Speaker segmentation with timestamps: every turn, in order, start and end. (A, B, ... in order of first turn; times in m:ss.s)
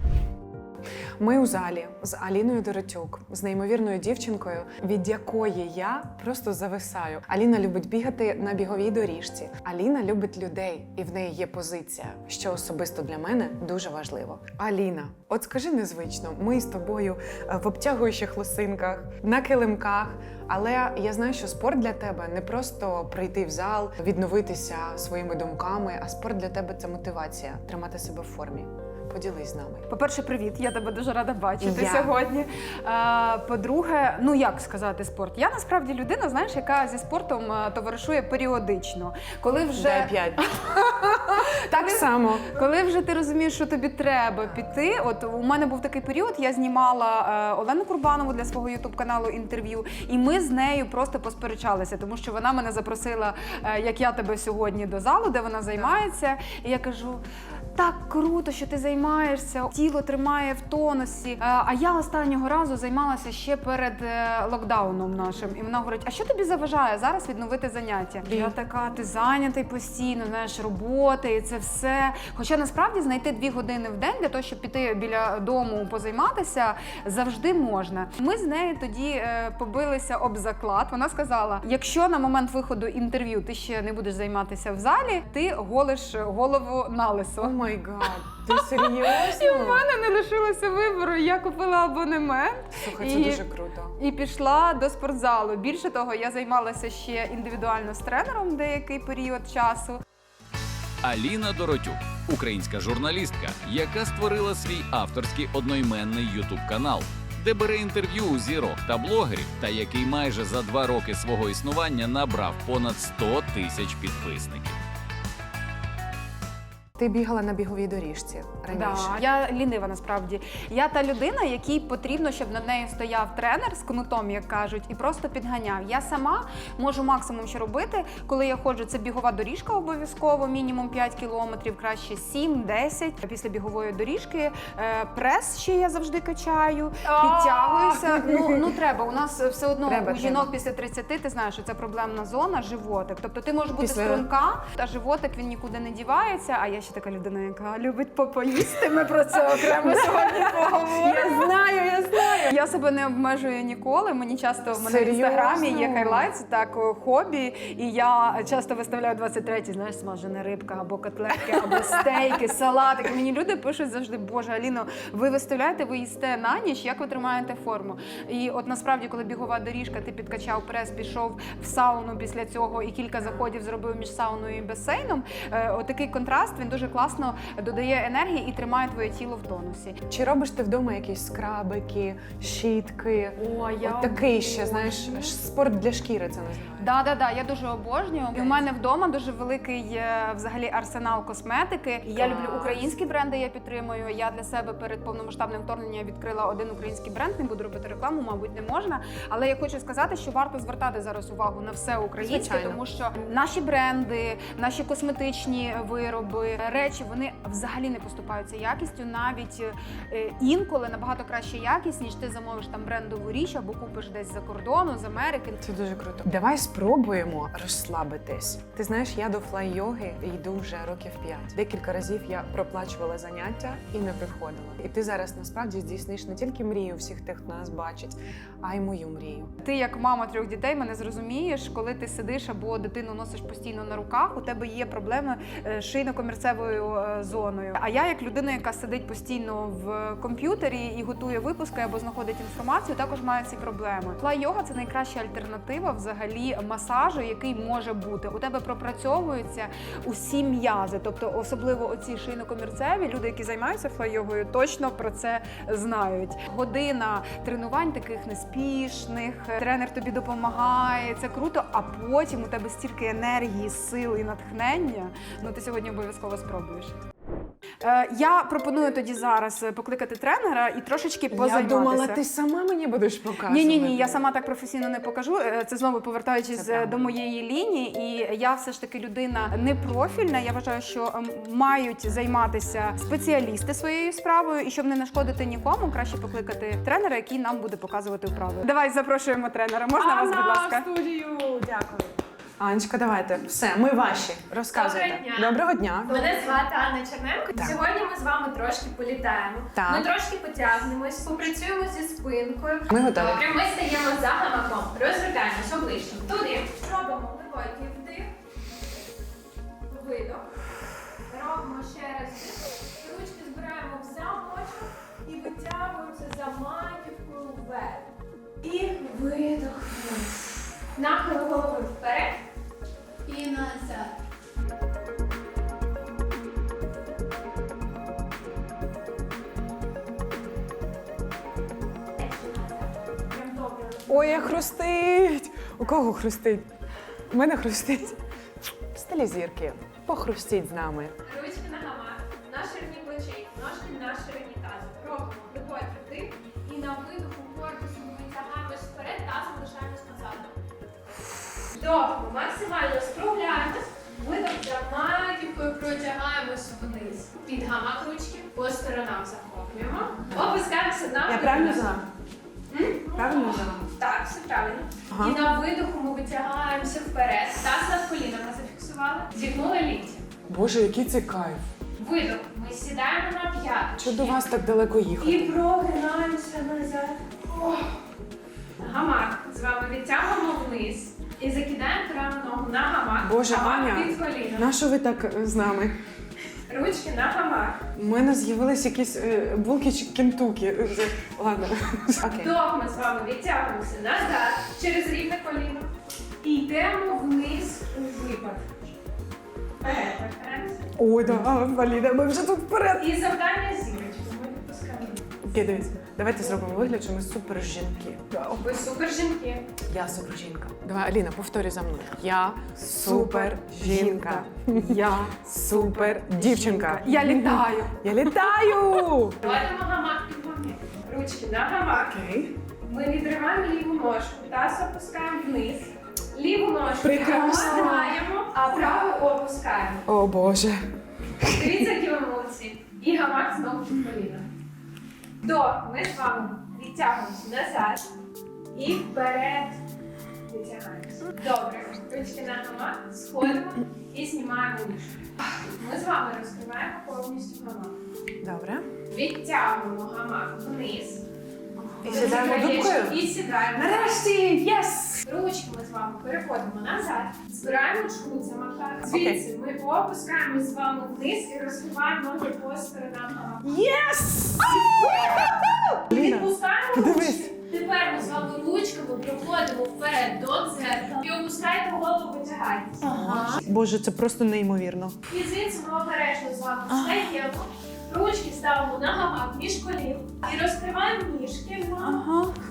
0:01.2-0:29.9 A
0:29.9-0:57.2 B
0:31.6-0:32.2 A
0:39.7-0:40.6 A
0:41.7-0:42.5 A
0:57.8-1:27.6 B
1:08.2-1:08.5 A
1:27.4-1:29.8 A
1:28.5-1:33.4 B
1:32.8-1:34.0 A
1:34.0-1:40.0 B
1:41.0-1:54.8 C
1:57.0-1:59.2 A
1:58.7-2:31.6 B
2:17.2-2:18.8 A
2:19.8-2:20.5 A
2:23.8-2:24.3 A
2:29.6-2:32.6 A
2:32.2-3:00.0 B
2:34.8-2:36.3 A
2:53.2-2:53.5 A
3:00.1-3:06.9 A
3:03.4-3:05.4 B
3:06.8-3:35.6 B
3:08.4-3:08.7 A
3:12.1-3:12.8 A
3:22.2-3:22.8 A
3:35.6-3:49.5 A
3:49.6-4:26.9 B
4:27.8-4:32.2 B
4:31.3-4:34.2 A
4:33.4-4:50.9 B
4:36.6-4:37.1 A
4:50.0-4:56.6 A
4:51.1-4:51.6 D
4:54.7-5:08.3 D
4:59.8-5:00.1 A
5:02.9-5:03.4 A
5:09.9-5:10.5 D
5:11.3-5:18.1 D
5:18.6-5:22.4 D
5:23.3-5:24.2 D
5:32.2-5:34.7 D
5:34.1-5:36.7 A
5:37.3-5:38.2 A
5:38.9-5:41.2 A
5:41.3-5:50.6 D
5:51.7-6:02.0 D
6:01.3-6:02.1 A
6:02.7-6:10.2 D
6:03.2-6:03.8 A
6:05.1-6:05.4 A
6:10.5-6:11.6 A
6:12.0-6:14.4 D
6:14.0-6:15.6 A
6:15.2-6:17.9 D
6:18.8-6:24.7 D
6:23.2-6:26.0 A
6:26.7-6:27.8 D
6:28.0-6:32.5 A
6:32.2-6:35.9 D
6:36.4-6:38.7 D
6:39.8-6:40.9 D
6:41.0-6:43.1 A
6:43.0-6:45.3 D
6:45.4-6:48.5 A
6:48.5-6:49.7 D
6:49.8-6:59.5 A
6:52.8-6:58.8 B
6:59.4-7:02.2 D
7:02.1-7:02.6 A
7:02.8-7:10.0 D
7:07.0-7:08.2 A
7:10.1-7:10.8 A
7:11.4-7:11.9 A
7:11.5-7:14.5 D
7:15.4-7:18.1 D
7:18.7-7:19.8 D
7:20.5-7:28.0 D
7:28.4-7:28.9 A
7:29.1-7:31.2 D
7:31.8-7:32.6 B
7:32.0-7:33.2 A
7:32.0-7:34.3 D
7:33.8-7:35.2 A
7:35.2-7:43.9 D
7:39.0-7:39.4 A
7:43.6-7:47.5 A
7:44.6-7:45.5 D
7:46.1-7:53.1 D
7:53.0-7:55.2 A
7:53.0-7:53.6 B
7:55.3-8:02.2 D
7:56.9-7:57.2 A
8:02.0-8:02.5 B